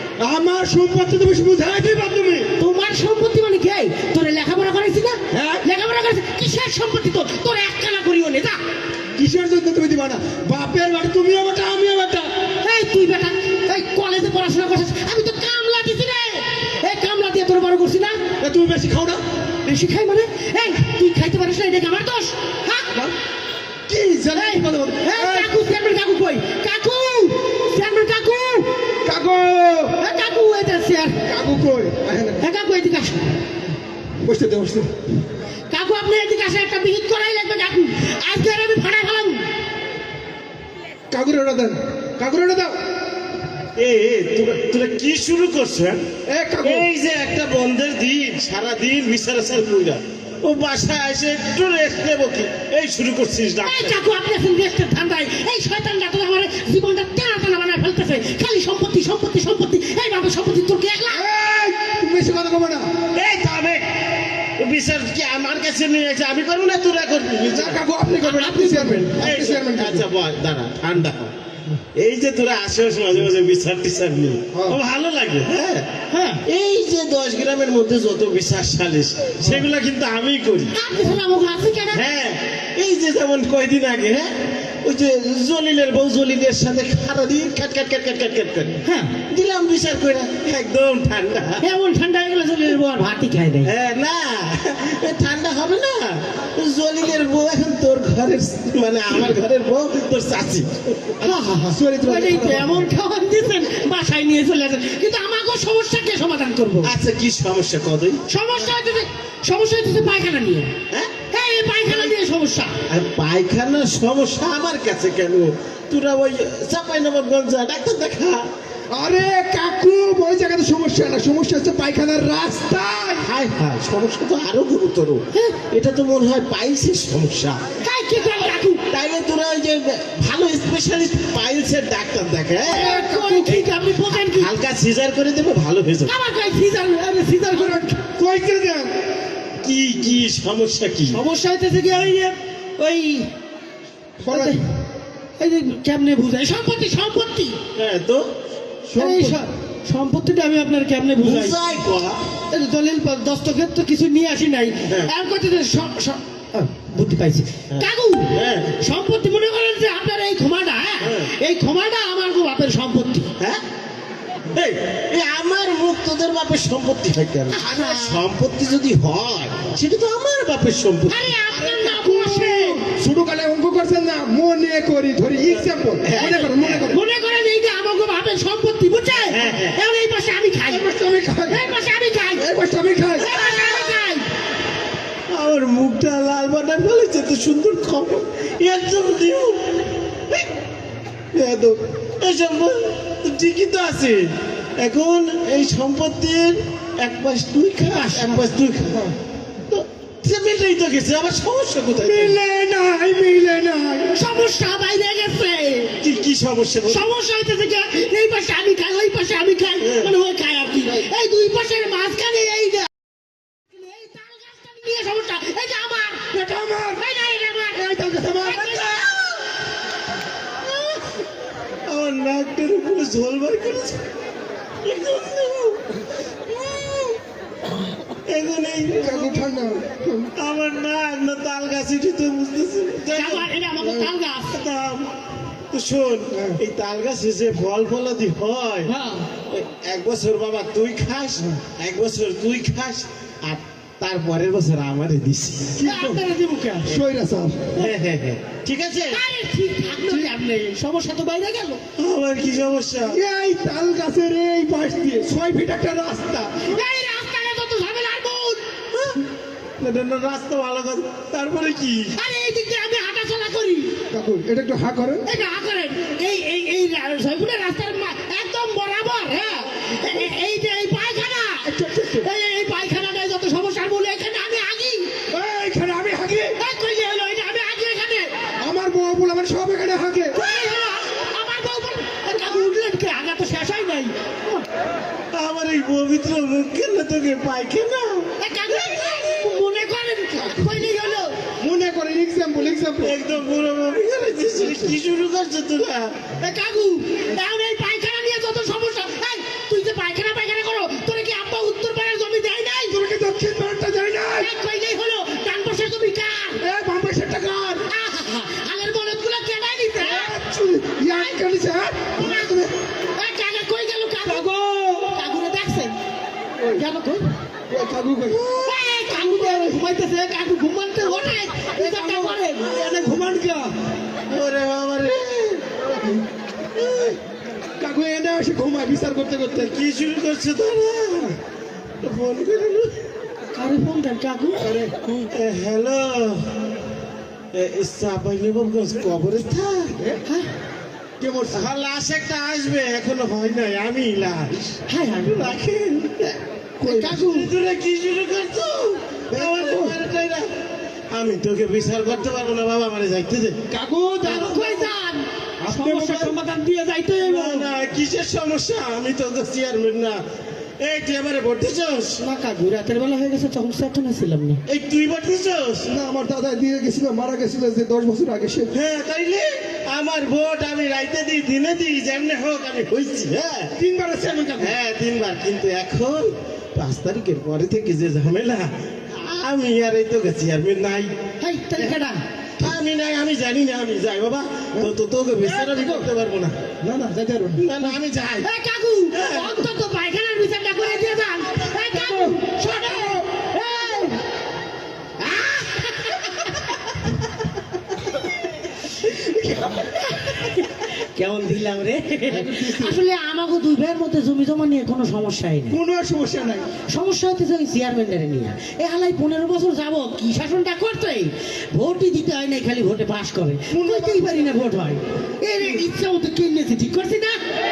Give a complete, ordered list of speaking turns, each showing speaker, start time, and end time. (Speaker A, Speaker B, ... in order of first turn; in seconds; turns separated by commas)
Speaker A: 0.2-2.5, Speaker B: 2.6-8.6, Speaker A: 5.3-5.7, Speaker A: 9.2-12.3, Speaker B: 12.6-18.2, Speaker A: 18.4-19.2, Speaker B: 19.6-22.9, Speaker A: 23.9-25.6, Speaker B: 24.4-28.7, Speaker A: 29.0-30.0, Speaker B: 30.0-31.2, Speaker A: 31.3-32.4, Speaker B: 32.4-33.2, Speaker A: 34.2-34.9, Speaker B: 35.7-39.5, Speaker A: 41.1-42.8, Speaker C: 43.8-46.0, Speaker A: 46.3-46.9, Speaker C: 46.6-54.0, Speaker B: 53.6-61.3, Speaker A: 61.1-62.9, Speaker C: 63.1-63.9, Speaker C: 64.6-67.8, Speaker A: 67.5-70.1, Speaker B: 68.2-69.1, Speaker C: 69.2-71.3, Speaker C: 72.0-75.9, Speaker A: 74.5-74.8, Speaker B: 76.1-76.4, Speaker C: 76.5-80.8, Speaker B: 80.7-82.0, Speaker C: 81.9-84.3, Speaker C: 84.8-91.6, Speaker B: 88.8-89.2, Speaker B: 91.6-93.7, Speaker C: 93.7-101.8, Speaker A: 101.2-102.9, Speaker B: 101.5-106.9, Speaker C: 106.8-108.8, Speaker B: 108.3-110.7, Speaker B: 111.3-112.8, Speaker C: 112.9-118.5, Speaker A: 118.9-123.2, Speaker C: 123.2-127.6, Speaker B: 127.8-128.8, Speaker C: 128.9-132.9, Speaker A: 132.7-133.5, Speaker B: 132.7-134.5, Speaker C: 133.4-136.1, Speaker B: 136.1-137.9, Speaker A: 137.5-138.9, Speaker C: 139.6-141.2, Speaker B: 141.1-143.3, Speaker A: 144.2-144.6, Speaker B: 144.2-144.7, Speaker B: 145.4-147.6, Speaker C: 147.8-148.2, Speaker A: 148.9-149.4, Speaker B: 149.0-151.6, Speaker C: 151.2-152.2, Speaker B: 152.5-163.3, Speaker C: 157.7-158.7, Speaker C: 161.0-161.3, Speaker C: 164.5-171.4, Speaker B: 167.5-168.2, Speaker B: 171.1-172.8, Speaker A: 171.5-177.0, Speaker C: 176.0-176.8, Speaker B: 176.9-180.8, Speaker C: 179.3-179.8, Speaker A: 180.7-181.6, Speaker B: 181.5-182.5, Speaker A: 182.4-183.7, Speaker B: 183.2-184.3, Speaker C: 185.3-190.5, Speaker C: 191.3-194.2, Speaker C: 194.8-199.0, Speaker B: 197.8-198.4, Speaker A: 198.9-199.2, Speaker C: 199.7-202.4, Speaker A: 202.0-204.1, Speaker B: 204.1-205.9, Speaker C: 206.0-207.1, Speaker B: 206.8-212.9, Speaker C: 209.8-210.1, Speaker B: 213.7-217.9, Speaker A: 216.4-217.0, Speaker A: 217.7-219.1, Speaker B: 218.4-219.4, Speaker C: 220.7-221.0, Speaker C: 221.9-224.0, Speaker C: 224.8-225.8, Speaker C: 226.5-227.2, Speaker C: 228.3-229.6, Speaker A: 229.0-230.3, Speaker C: 230.3-233.5, Speaker B: 233.1-234.6, Speaker A: 233.8-234.1, Speaker C: 234.5-235.2, Speaker C: 235.7-238.9, Speaker A: 236.3-236.6, Speaker B: 238.8-239.3, Speaker C: 239.5-245.8, Speaker A: 245.8-246.2, Speaker B: 245.8-247.0, Speaker A: 246.8-247.7, Speaker C: 247.8-249.2, Speaker B: 249.1-251.8, Speaker A: 249.9-250.3, Speaker C: 252.0-253.2, Speaker A: 253.1-256.7, Speaker B: 256.6-258.6, Speaker C: 258.9-259.2, Speaker C: 259.8-262.1, Speaker B: 262.1-263.9, Speaker A: 264.1-265.2, Speaker B: 265.2-271.7, Speaker A: 271.6-272.3, Speaker B: 272.2-275.1, Speaker A: 275.3-276.6, Speaker B: 276.6-278.3, Speaker A: 278.6-280.4, Speaker B: 280.3-284.6, Speaker C: 285.3-288.3, Speaker B: 288.4-291.4, Speaker A: 290.4-290.8, Speaker A: 291.6-293.2, Speaker C: 293.0-296.2, Speaker A: 294.6-294.9, Speaker B: 296.4-303.0, Speaker A: 302.9-304.5, Speaker B: 304.3-306.6, Speaker A: 306.6-307.9, Speaker B: 307.9-310.3, Speaker A: 310.0-312.7, Speaker B: 311.1-311.4, Speaker B: 312.2-312.5, Speaker B: 313.1-314.4, Speaker A: 314.2-315.2, Speaker B: 315.1-315.9, Speaker B: 316.7-317.3, Speaker A: 317.7-318.4, Speaker C: 318.3-318.8, Speaker B: 318.6-322.8, Speaker A: 319.1-319.8, Speaker A: 321.7-323.7, Speaker C: 324.3-325.6, Speaker A: 326.0-326.2, Speaker C: 326.7-327.2, Speaker A: 327.8-329.7, Speaker C: 329.5-331.4, Speaker C: 332.0-332.9, Speaker B: 333.5-334.7, Speaker A: 334.6-334.9, Speaker C: 335.3-336.5, Speaker C: 337.5-339.9, Speaker A: 341.2-341.7, Speaker C: 341.5-346.4, Speaker B: 344.9-345.5, Speaker A: 346.8-347.3, Speaker B: 346.8-347.5, Speaker C: 347.2-350.5, Speaker A: 349.3-350.0, Speaker C: 351.1-353.6, Speaker A: 353.7-354.5, Speaker B: 354.2-357.7, Speaker C: 354.3-354.9, Speaker C: 355.6-356.4, Speaker C: 357.2-360.2, Speaker C: 360.8-362.2, Speaker B: 362.2-364.6, Speaker C: 364.7-365.9, Speaker A: 365.9-368.7, Speaker C: 368.7-373.7, Speaker A: 373.8-374.8, Speaker C: 374.6-381.1, Speaker B: 381.4-382.2, Speaker C: 382.6-386.5, Speaker A: 384.7-386.1, Speaker A: 386.8-387.8, Speaker C: 387.6-388.5, Speaker B: 388.4-394.2, Speaker C: 389.1-389.7, Speaker A: 391.7-393.2, Speaker B: 395.2-396.6, Speaker A: 399.2-400.0, Speaker B: 400.0-405.8, Speaker A: 402.3-403.0, Speaker A: 405.7-406.7, Speaker B: 406.9-417.4, Speaker A: 413.7-414.2